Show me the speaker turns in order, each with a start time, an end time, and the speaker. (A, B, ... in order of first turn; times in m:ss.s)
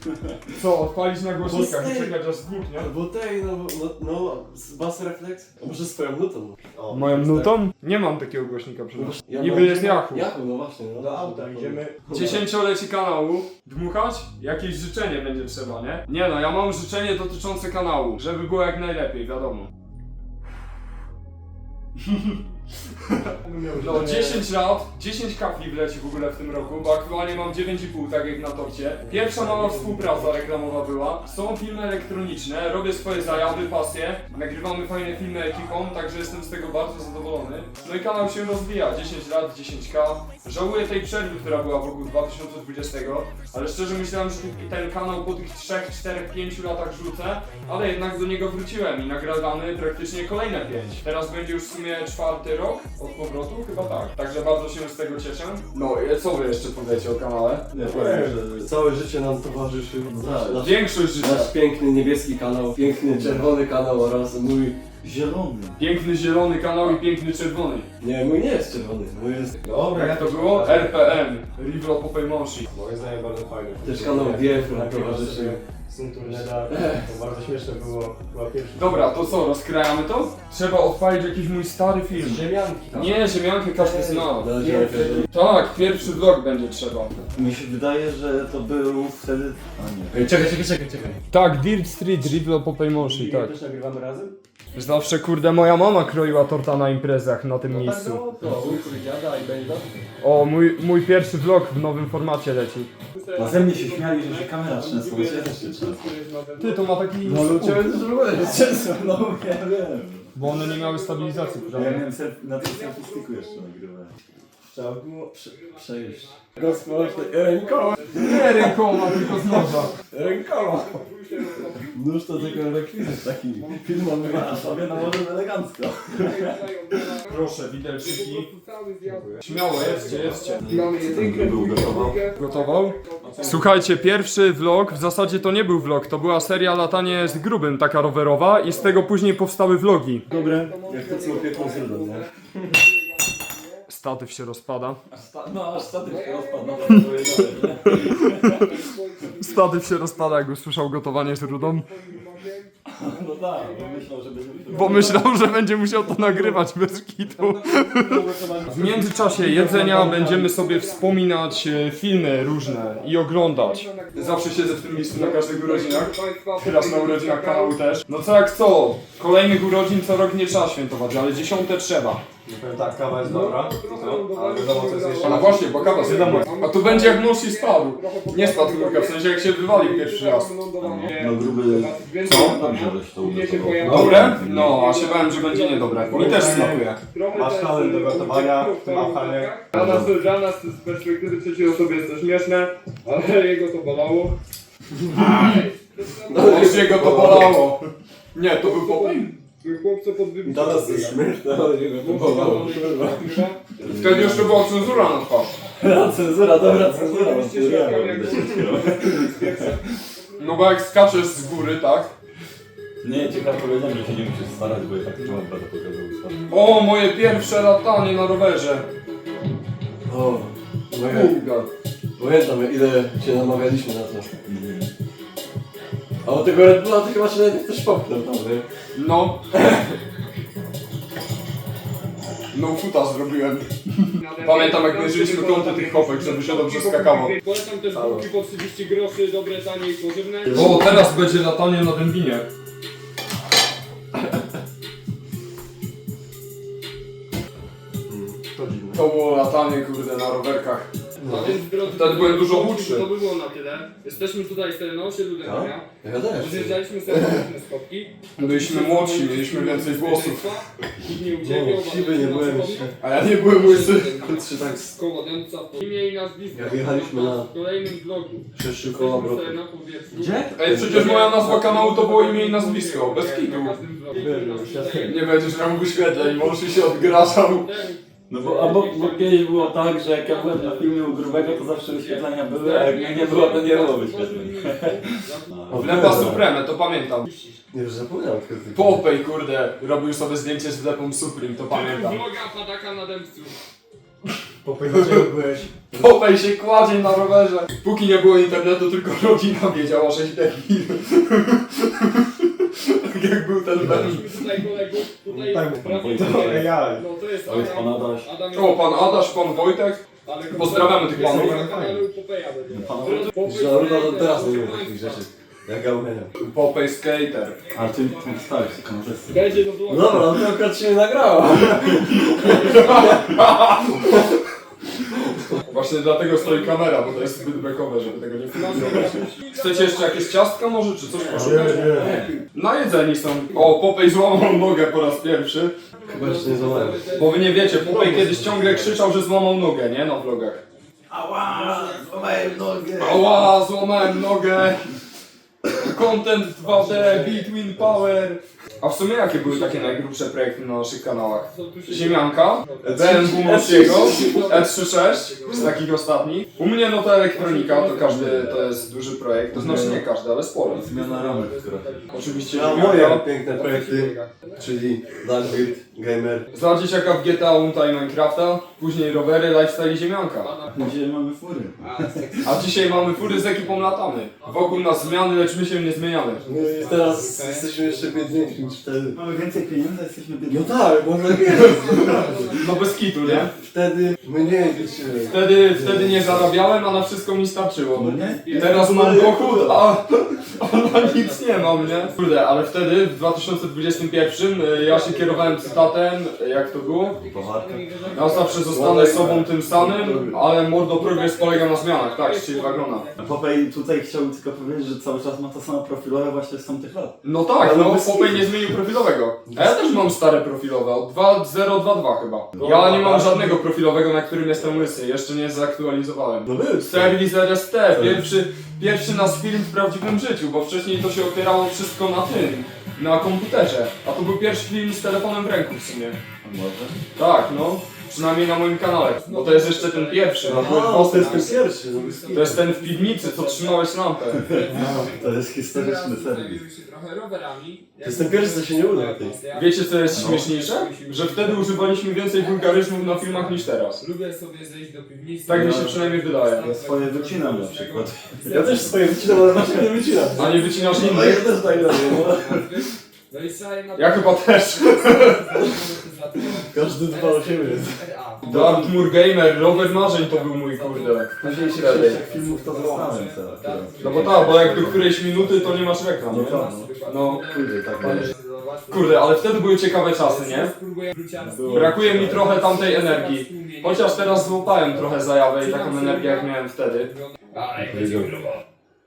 0:00.5-0:02.9 A
0:01.4-0:02.1 B
0:02.8-0:07.5 B
0:06.9-0:10.3 A
0:09.0-0:12.4 B
0:11.0-0:12.3 C
0:12.1-0:19.7 A
0:22.0-0:22.4 A
0:23.0-0:57.7 A
0:23.4-0:24.4 B
0:29.4-0:30.2 B
0:57.7-0:58.7 D
0:57.8-1:04.8 B
1:00.1-1:00.7 D
1:00.6-1:01.5 A
1:05.0-1:05.8 D
1:05.8-1:07.9 A
1:08.0-1:10.9 B
1:09.7-1:10.9 C
1:09.9-1:12.7 A
1:12.7-1:19.4 C
1:13.8-1:15.6 B
1:16.2-1:17.1 B
1:18.7-1:24.5 A
1:22.1-1:23.0 C
1:22.2-1:23.2 B
1:23.8-1:25.3 C
1:24.3-1:25.3 B
1:25.3-1:27.2 A
1:27.3-1:30.6 D
1:30.1-1:31.2 B
1:31.3-1:33.5 A
1:33.0-1:34.4 C
1:34.7-1:38.2 A
1:37.7-1:40.0 B
1:38.3-1:38.6 C
1:40.2-1:42.9 A
1:43.1-1:47.0 E
1:43.4-1:46.0 D
1:45.0-1:45.8 B
1:46.6-1:47.8 A
1:47.2-1:48.9 B
1:48.2-1:50.5 D
1:50.4-1:52.0 A
1:50.4-1:53.7 E
1:51.7-1:54.1 D
1:54.7-1:59.5 B
1:55.5-2:02.7 E
1:58.2-1:59.9 A
2:00.1-2:01.0 B
2:01.9-2:05.1 B
2:03.6-2:04.5 E
2:04.2-2:07.0 D
2:06.1-2:17.5 E
2:07.3-2:08.5 A
2:09.4-2:10.6 A
2:09.8-2:12.2 D
2:12.4-2:20.2 A
2:18.5-2:19.1 E
2:20.3-2:23.8 E
2:20.3-2:22.3 B
2:23.9-2:25.0 A
2:25.1-2:28.8 D
2:26.1-2:30.5 E
2:27.8-2:28.6 A
2:29.4-2:31.9 A
2:31.2-2:35.4 E
2:32.9-2:35.3 D
2:34.7-2:52.2 A
2:37.3-2:40.4 C
2:38.9-2:47.8 E
2:52.5-2:53.8 C
2:53.2-3:14.4 E
2:53.9-2:54.4 A
2:54.5-2:55.6 C
2:55.2-3:00.5 A
2:56.1-2:56.4 B
3:00.8-3:04.8 D
3:03.8-3:06.9 A
3:03.8-3:04.1 B
3:06.1-3:06.9 B
3:06.3-3:09.6 C
3:09.7-3:10.1 D
3:15.0-3:15.4 B
3:15.1-3:17.3 E
3:15.1-3:15.6 A
3:16.3-3:17.6 B
3:16.4-3:19.3 A
3:18.6-3:21.3 E
3:20.4-3:24.9 B
3:22.0-3:24.4 E
3:23.9-3:25.5 A
3:25.8-3:29.8 D
3:26.6-3:27.0 B
3:26.8-3:31.4 E
3:28.2-3:28.6 B
3:30.4-3:32.1 A
3:33.0-3:36.5 D
3:36.5-3:38.9 A
3:40.1-3:41.4 B
3:41.0-3:41.7 A
3:42.2-3:44.3 B
3:44.4-3:44.9 D
3:46.2-3:48.7 B
3:49.0-3:49.5 A
3:52.5-3:57.3 A
3:54.2-4:01.0 E
3:57.9-3:58.3 A
4:00.5-4:00.9 D
4:00.5-4:02.5 A
4:08.1-4:09.0 B
4:08.9-4:10.9 A
4:11.2-4:11.6 B
4:11.2-4:28.5 E
4:11.8-4:13.1 A
4:15.4-4:17.4 B
4:18.4-4:20.5 A
4:21.4-4:22.9 B
4:23.0-4:24.8 A
4:24.2-4:24.9 B
4:25.9-4:26.8 A
4:26.5-4:27.5 B
4:28.5-4:29.6 B
4:28.9-4:29.2 A
4:29.1-4:46.4 E
4:30.1-4:31.6 B
4:30.3-4:33.8 A
4:34.1-4:35.2 B
4:35.0-4:37.8 A
4:38.3-4:46.3 D
4:45.7-4:46.4 B
4:45.7-4:47.3 A
4:47.3-4:47.6 E
4:47.7-4:49.0 B
4:48.7-4:52.2 A
4:51.7-4:53.6 E
4:54.6-4:55.8 C
4:55.9-5:04.3 A
5:03.8-5:15.3 E
5:05.3-5:06.2 B
5:05.5-5:07.0 C
5:05.8-5:06.7 D
5:07.4-5:08.3 D
5:08.5-5:11.7 A
5:11.0-5:11.5 B
5:11.1-5:12.0 C
5:12.7-5:13.3 D
5:13.4-5:16.3 B
5:16.4-5:17.6 A
5:17.6-5:18.8 E
5:17.7-5:19.6 D
5:19.3-5:20.6 E
5:19.9-5:24.3 B
5:22.0-5:24.2 A
5:22.4-5:23.2 E
5:25.1-5:25.4 B
5:25.5-5:27.7 E
5:25.6-5:35.8 A
5:28.5-5:30.4 E
5:31.3-5:32.3 B
5:31.3-5:32.3 E
5:31.6-5:31.9 D
5:35.9-5:39.0 E
5:36.1-5:37.1 B
5:37.1-5:40.6 A
5:38.1-5:38.7 B
5:41.1-5:43.3 D
5:43.0-5:44.9 A
5:45.7-6:00.8 A
5:46.6-5:50.0 E
5:51.1-5:55.9 E
5:52.8-5:54.6 B
5:57.3-5:59.0 E
5:59.5-6:00.0 D
5:59.6-5:59.9 B
6:00.6-6:02.2 D
6:00.7-6:05.7 E
6:02.1-6:03.2 A
6:02.5-6:06.4 B
6:06.5-6:07.4 E
6:06.5-6:10.6 A
6:10.3-6:10.9 E
6:10.7-6:12.4 D
6:11.8-6:18.8 E
6:12.4-6:16.4 A
6:16.5-6:19.2 B
6:19.1-6:20.8 D
6:20.5-6:22.6 B
6:21.4-6:23.4 E
6:22.1-6:23.5 A
6:23.3-6:26.5 B
6:24.2-6:26.9 E
6:25.3-6:37.2 A
6:27.9-6:29.8 D
6:28.3-6:28.9 E
6:28.9-6:29.7 B
6:30.6-6:32.6 E
6:33.9-6:39.5 E
6:37.2-6:39.4 D
6:38.1-6:43.1 A
6:38.6-6:40.4 B
6:40.9-6:43.4 E
6:43.2-6:47.2 D
6:47.2-7:06.2 A
6:47.6-6:48.5 B
6:49.5-6:49.8 B
6:52.5-6:53.1 D
6:52.6-6:53.6 B
6:56.5-6:57.2 B
6:58.0-6:58.3 D
7:06.4-7:07.0 D
7:07.2-7:11.5 A
7:09.2-7:28.9 E
7:10.5-7:12.7 B
7:12.3-7:14.6 A
7:14.4-7:16.6 D
7:14.7-7:15.0 C
7:14.7-7:15.1 B
7:18.0-7:19.4 B
7:19.5-7:24.0 A
7:20.1-7:20.5 D
7:25.5-7:26.7 A
7:25.5-7:26.0 D
7:26.6-7:29.8 D
7:28.4-7:30.9 B
7:30.2-7:56.5 E
7:30.4-7:31.7 A
7:30.8-7:32.8 D
7:31.8-7:32.4 B
7:34.0-7:35.8 A
7:36.6-7:38.0 B
7:38.4-7:42.2 A
7:38.5-7:38.9 D
7:41.5-7:42.2 B
7:41.7-7:45.1 D
7:44.0-7:47.4 A
7:46.3-7:48.3 D
7:48.9-7:50.7 A
7:51.4-7:52.5 D
7:51.7-7:57.1 A
7:57.1-7:58.6 E
7:57.8-7:58.3 D